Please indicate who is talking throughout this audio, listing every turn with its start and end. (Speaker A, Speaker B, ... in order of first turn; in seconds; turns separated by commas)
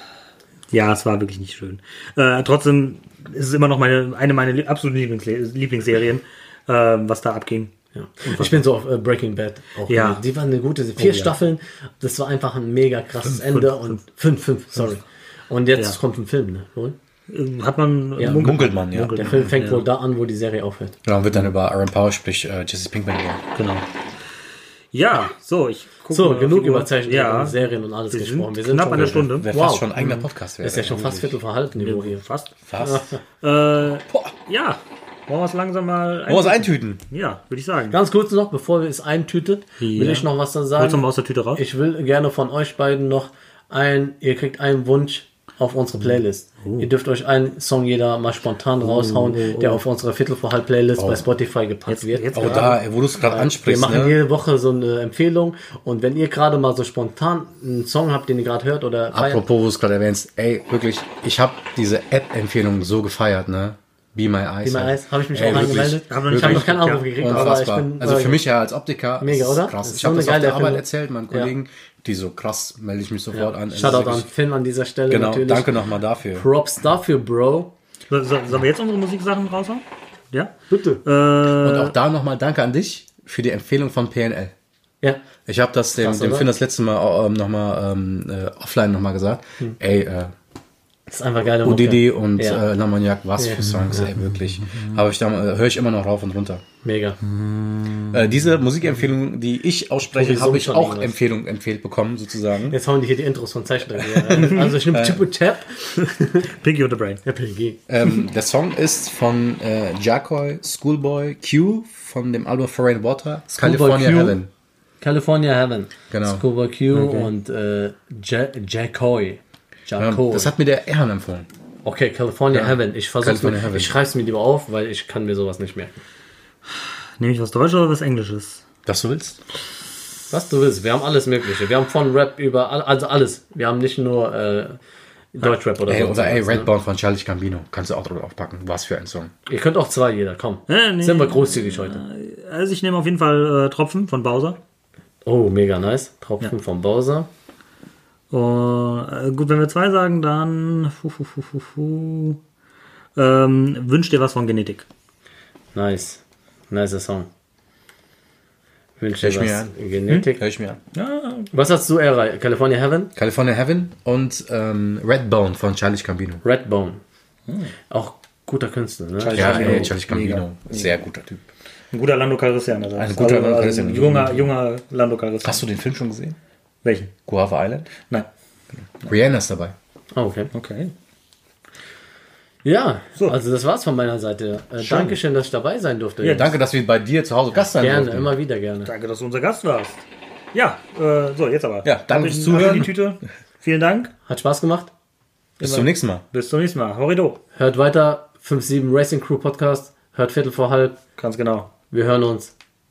Speaker A: 0.7-7.7, Speaker B: 8.0-16.9, Speaker A: 8.3-8.6, Speaker A: 9.9-10.2, Speaker A: 11.0-11.3, Speaker A: 13.3-14.0, Speaker A: 17.3-19.9, Speaker B: 18.2-18.6, Speaker C: 18.2-19.3, Speaker B: 19.1-21.0, Speaker C: 21.1-23.4, Speaker A: 23.6-23.9, Speaker A: 24.9-27.6, Speaker B: 26.1-30.0, Speaker A: 28.1-30.2, Speaker C: 28.9-31.4, Speaker B: 30.6-32.2, Speaker A: 31.8-32.5, Speaker C: 32.6-33.1, Speaker B: 32.8-33.2, Speaker A: 33.4-38.0, Speaker C: 34.1-34.4, Speaker C: 36.3-37.0, Speaker B: 37.9-59.4, Speaker A: 39.8-41.6, Speaker A: 46.6-46.9, Speaker A: 48.8-49.8, Speaker C: 51.0-51.3, Speaker A: 51.9-52.8, Speaker C: 52.3-54.2, Speaker C: 59.1-74.3, Speaker B: 64.6-68.5, Speaker A: 65.5-67.5, Speaker B: 69.2-71.5, Speaker B: 73.3-77.7, Speaker C: 75.1-76.5, Speaker A: 78.1-81.9, Speaker B: 80.7-81.0, Speaker C: 81.5-84.5, Speaker C: 85.5-90.3, Speaker B: 86.0-86.5, Speaker B: 91.1-92.6, Speaker C: 91.6-96.6, Speaker B: 93.4-94.1, Speaker B: 96.8-97.2, Speaker A: 97.2-98.2, Speaker C: 98.1-102.8, Speaker B: 100.1-101.2, Speaker B: 102.7-106.5, Speaker C: 104.0-105.3, Speaker A: 104.3-104.7, Speaker A: 106.0-107.2, Speaker B: 107.2-107.8, Speaker C: 107.9-114.5, Speaker B: 113.6-114.4, Speaker B: 115.0-120.5, Speaker C: 116.1-116.4, Speaker A: 116.9-117.3, Speaker C: 120.0-121.5, Speaker B: 121.8-126.0, Speaker C: 122.5-123.9, Speaker A: 127.2-128.6, Speaker C: 128.9-129.4, Speaker B: 130.3-134.8, Speaker B: 135.3-136.7, Speaker C: 135.8-139.3, Speaker B: 139.5-142.0, Speaker A: 140.7-144.6, Speaker B: 145.2-147.3, Speaker A: 148.3-152.4, Speaker A: 153.2-154.9, Speaker B: 155.8-157.3, Speaker B: 159.0-160.4, Speaker C: 159.2-159.7, Speaker C: 160.4-160.8, Speaker A: 160.9-161.5, Speaker B: 161.5-163.1, Speaker C: 163.2-166.4, Speaker B: 166.4-167.0, Speaker B: 167.9-169.9, Speaker A: 169.2-170.9, Speaker C: 169.3-171.4, Speaker A: 171.9-175.6, Speaker C: 173.0-174.5, Speaker C: 175.4-176.4, Speaker A: 176.8-177.1, Speaker C: 177.3-177.9, Speaker C: 179.0-179.8, Speaker B: 180.1-180.5, Speaker A: 180.5-180.9, Speaker B: 182.7-186.5, Speaker C: 184.8-185.2, Speaker A: 186.2-186.5, Speaker C: 186.3-188.3, Speaker B: 187.8-188.9, Speaker A: 188.8-194.1, Speaker C: 191.8-192.9, Speaker B: 194.3-194.9, Speaker C: 195.6-196.2, Speaker A: 195.6-197.4, Speaker B: 197.6-201.0, Speaker A: 201.2-201.7, Speaker B: 201.9-202.5